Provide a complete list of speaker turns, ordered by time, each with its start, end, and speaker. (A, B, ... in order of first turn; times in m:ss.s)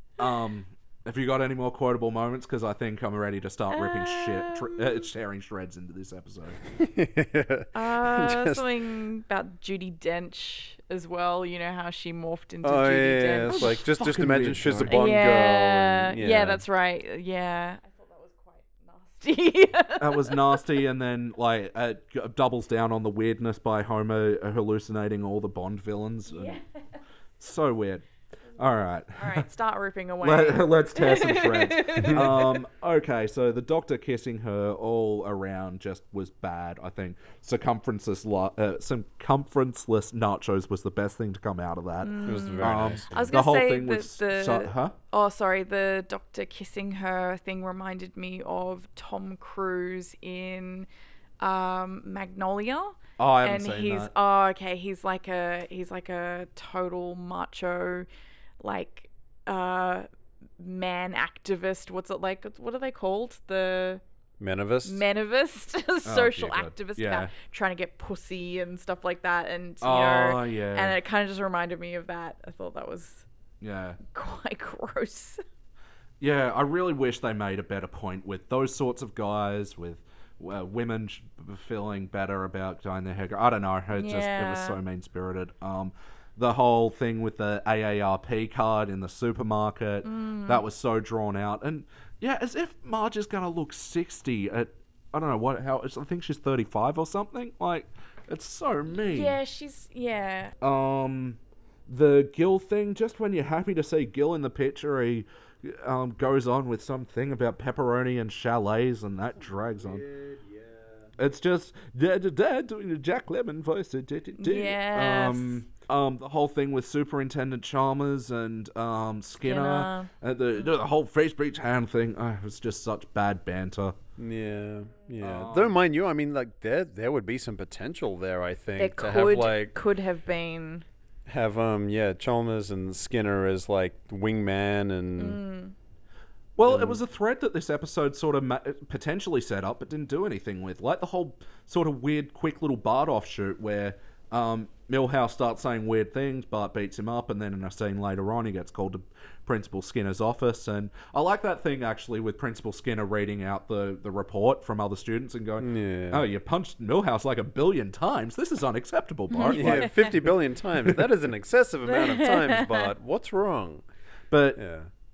0:00.2-0:06.6 A
0:03.7-0:05.1 B
0:06.7-0:08.7 C
0:07.7-0:13.8 B
0:12.6-0:16.6 C
0:13.5-0:15.0 A
0:14.9-0:20.6 B
0:20.0-0:26.6 A
0:26.3-0:27.0 B
0:27.4-0:28.0 A
0:28.6-0:29.5 A
0:29.2-0:32.5 B
0:30.2-0:45.0 A
0:32.0-0:32.5 C
0:42.0-0:50.9 B
0:42.3-0:43.3 C
0:51.4-0:58.1 B
0:53.2-0:54.1 A
0:58.6-1:00.1 B
1:00.6-1:04.0 B
1:04.4-1:05.0 C
1:04.8-1:13.3 B
1:06.0-1:07.3 A
1:09.8-1:11.0 A
1:13.6-1:14.0 A
1:14.1-1:15.4 B
1:16.2-1:39.4 A
1:23.9-1:24.8 B
1:30.0-1:30.6 B
1:39.0-1:40.5 B
1:40.6-1:50.0 A
1:49.8-1:51.1 C
1:51.2-2:04.0 A
1:54.4-1:55.6 B
1:59.4-2:00.1 B
2:04.2-2:09.8 C
2:05.2-2:05.8 A
2:08.8-2:10.8 B
2:11.3-2:15.4 C
2:15.2-2:15.8 B
2:16.6-2:40.3 A
2:16.7-2:17.0 C
2:35.6-2:36.3 C
2:39.3-2:40.1 B
2:39.5-2:43.8 C
2:41.9-2:42.9 B
2:44.3-2:44.6 A
2:44.6-2:44.9 C